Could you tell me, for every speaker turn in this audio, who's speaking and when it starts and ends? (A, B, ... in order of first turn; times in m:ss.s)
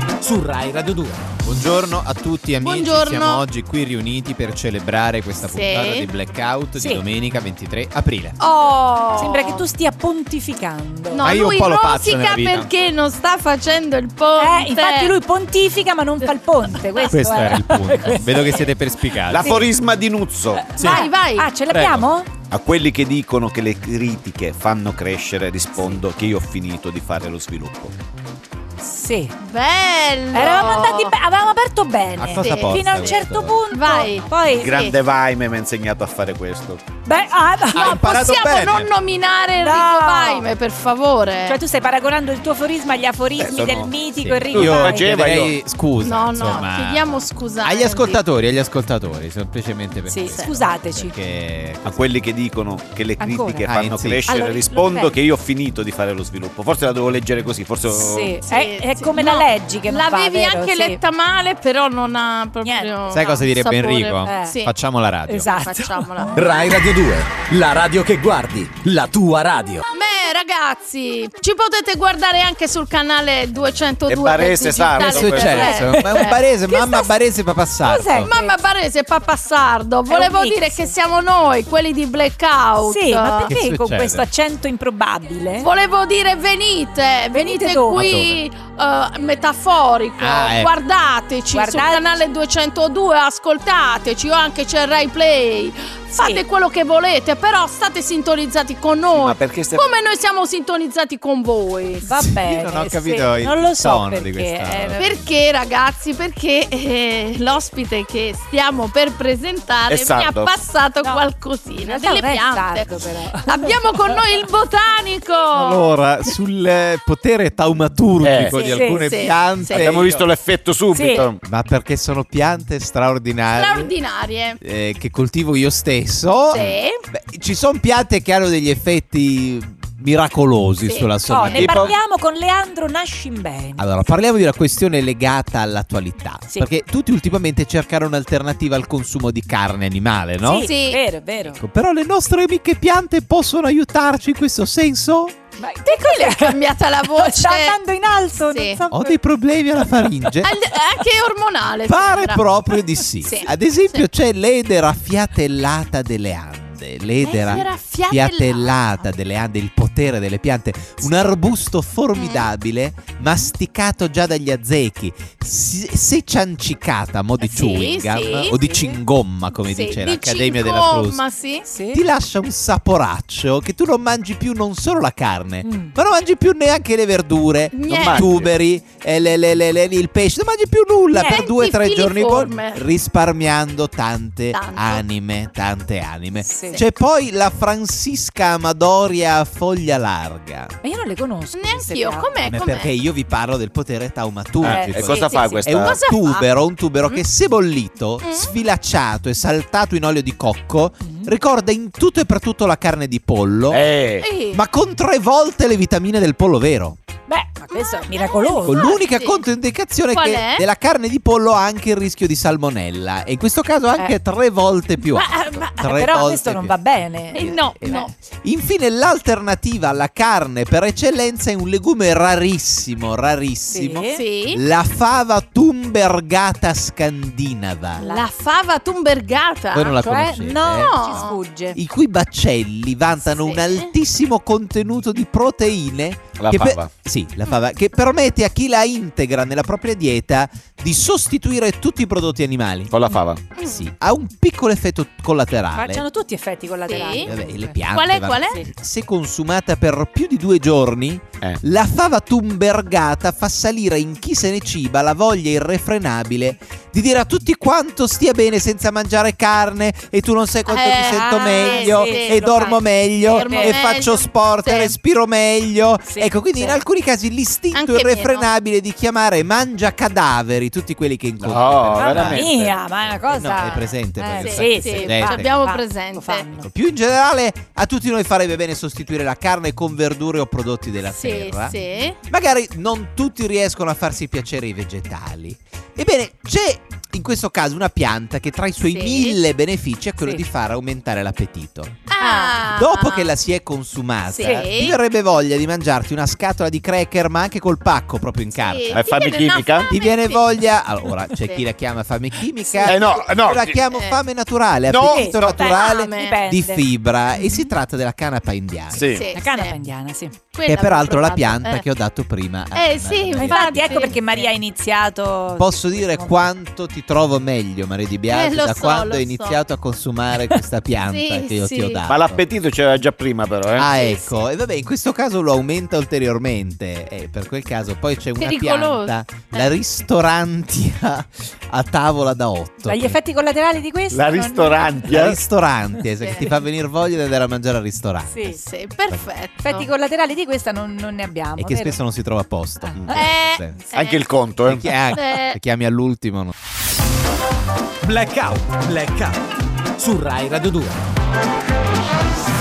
0:00.2-0:01.2 A
0:01.4-0:08.4 B
0:02.6-0:03.4 C
0:05.4-0:06.1 C
0:06.8-0:07.0 D
0:08.4-0:09.6 C
0:09.2-0:11.3 D
0:11.1-0:15.2 C
0:11.2-0:12.7 B
0:14.4-0:18.7 D
0:16.8-0:17.1 C
0:17.1-0:19.6 B
0:19.2-0:20.8 E
0:19.4-0:19.7 C
0:20.5-0:22.3 D
0:20.7-0:21.5 C
0:21.7-0:22.0 B
0:22.5-0:27.9 E
0:28.8-0:29.3 D
0:29.4-0:31.1 C
0:30.3-0:34.8 D
0:32.2-0:33.6 B
0:32.4-0:33.1 C
0:33.7-0:35.0 C
0:34.5-0:36.8 E
0:37.0-0:38.0 D
0:37.7-0:38.9 B
0:37.7-0:41.6 C
0:39.6-0:40.5 D
0:41.4-0:45.1 D
0:43.4-0:45.6 E
0:44.5-0:47.0 B
0:46.0-0:48.2 C
0:47.6-0:52.1 B
0:50.1-0:51.1 D
0:50.3-0:50.6 C
0:51.8-0:58.4 E
0:53.2-0:53.6 D
0:53.6-0:54.3 B
0:54.3-0:55.1 D
0:57.9-1:01.0 D
0:58.4-1:04.7 C
1:02.6-1:03.4 D
1:03.1-1:05.4 B
1:04.2-1:04.6 D
1:05.3-1:06.4 D
1:05.4-1:06.5 C
1:06.3-1:09.8 A
1:09.9-1:17.1 C
1:14.1-1:15.8 E
1:15.0-1:18.3 B
1:15.6-1:16.4 D
1:17.8-1:18.6 D
1:18.2-1:23.5 C
1:20.1-1:20.9 D
1:22.8-1:25.7 D
1:23.5-1:24.3 B
1:25.6-1:42.1 C
1:27.3-1:28.2 D
1:27.9-1:28.4 B
1:30.2-1:30.7 B
1:31.5-1:32.0 D
1:36.2-1:36.4 D
1:39.1-1:39.9 E
1:42.0-1:45.2 D
1:42.2-1:45.1 B
1:45.0-1:55.8 C
1:49.9-1:50.5 E
1:51.8-1:54.2 D
1:55.5-2:00.3 B
1:58.2-1:58.5 E
1:58.5-2:00.1 C
1:58.6-1:59.1 D
1:59.7-2:01.4 E
2:00.9-2:01.3 D
2:01.4-2:03.9 B
2:03.5-2:04.6 C
2:04.6-2:11.9 B
2:06.5-2:07.0 C
2:06.5-2:06.8 E
2:10.8-2:11.6 C
2:11.2-2:13.8 D
2:11.6-2:11.9 E
2:13.8-2:20.7 B
2:16.5-2:16.8 D
2:20.4-2:21.6 D
2:20.5-2:21.0 C
2:21.5-2:25.4 B
2:25.6-2:29.2 D
2:25.8-2:27.8 C
2:28.4-2:28.8 C
2:28.9-2:30.5 B
2:30.0-2:30.7 D
2:30.4-2:32.4 C
2:31.8-2:51.2 B
2:33.2-2:34.0 C
2:37.2-2:38.9 C
2:42.2-2:42.5 C
2:47.4-2:48.5 C
2:48.5-2:49.0 D
2:49.6-2:51.7 C
2:51.6-2:52.0 D
2:51.9-3:10.7 B
2:55.6-2:56.0 D
2:57.7-2:58.3 C
2:57.9-2:58.5 E
3:01.1-3:01.4 D
3:01.2-3:02.8 C
3:04.5-3:05.0 C
3:06.4-3:06.8 D
3:10.8-3:12.4 D
3:11.6-3:12.9 C
3:12.4-3:23.9 B
3:14.6-3:16.0 E
3:14.6-3:15.6 D
3:15.0-3:16.5 C
3:18.2-3:18.5 C
3:21.0-3:21.3 D
3:23.7-3:24.2 E
3:24.2-3:24.6 C
3:24.5-3:27.0 B
3:27.3-3:29.0 D
3:27.7-3:29.4 C
3:28.6-3:48.0 B
3:30.1-3:30.6 C
3:35.1-3:38.1 D
3:35.3-3:35.7 C
3:37.3-3:38.1 C
3:43.7-3:44.2 D
3:44.1-3:44.6 C
3:48.0-3:50.0 C
3:48.0-3:48.2 D
3:49.7-4:06.0 B
3:50.0-3:51.8 D
3:50.5-3:51.4 C
3:53.2-3:53.9 C
3:56.4-3:56.9 E
4:02.9-4:03.4 E
4:03.6-4:03.9 C
4:05.7-4:07.8 D
4:06.8-4:07.3 C
4:07.2-4:32.5 B
4:07.9-4:08.6 C
4:08.4-4:08.7 D
4:20.7-4:24.9 C
4:20.9-4:23.8 D
4:26.0-4:26.8 D
4:27.7-4:28.5 C
4:31.4-4:32.8 E
4:32.0-4:36.7 D
4:33.3-4:35.5 B
4:34.4-4:36.5 C
4:36.6-4:41.8 B
4:41.0-4:42.2 C
4:42.3-4:59.0 B
4:48.8-4:49.4 C
4:52.1-4:53.3 C
4:52.2-4:52.6 D
4:54.3-4:55.0 C
4:54.4-4:54.7 D
4:58.6-5:00.4 C
4:58.9-4:59.9 E
4:59.9-5:09.1 B
5:01.3-5:01.6 C
5:02.8-5:03.1 C
5:02.8-5:03.8 E
5:03.9-5:04.2 C
5:04.9-5:05.3 E
5:05.0-5:07.7 D
5:05.4-5:06.4 C
5:08.9-5:09.3 E
5:09.0-5:09.8 C
5:09.3-5:10.4 D
5:10.5-5:11.8 C
5:10.6-5:14.2 B
5:12.7-5:14.4 C
5:13.4-5:16.3 D
5:15.6-5:22.4 B
5:18.3-5:19.6 C
5:21.0-5:22.1 C
5:22.1-5:23.9 E
5:23.8-5:33.2 B
5:24.0-5:24.4 C
5:28.4-5:29.7 C
5:32.8-5:35.0 D
5:34.1-5:35.4 E
5:35.0-5:38.4 B
5:36.2-5:36.5 C
5:38.3-5:38.6 D
5:38.4-5:39.8 C
5:39.6-5:42.0 D
5:41.6-5:43.8 B
5:42.8-5:43.2 D
5:43.1-5:44.2 C
5:43.9-5:44.9 E
5:44.6-5:46.5 B
5:45.1-5:45.6 C
5:48.0-5:49.4 A
5:50.0-5:51.0 A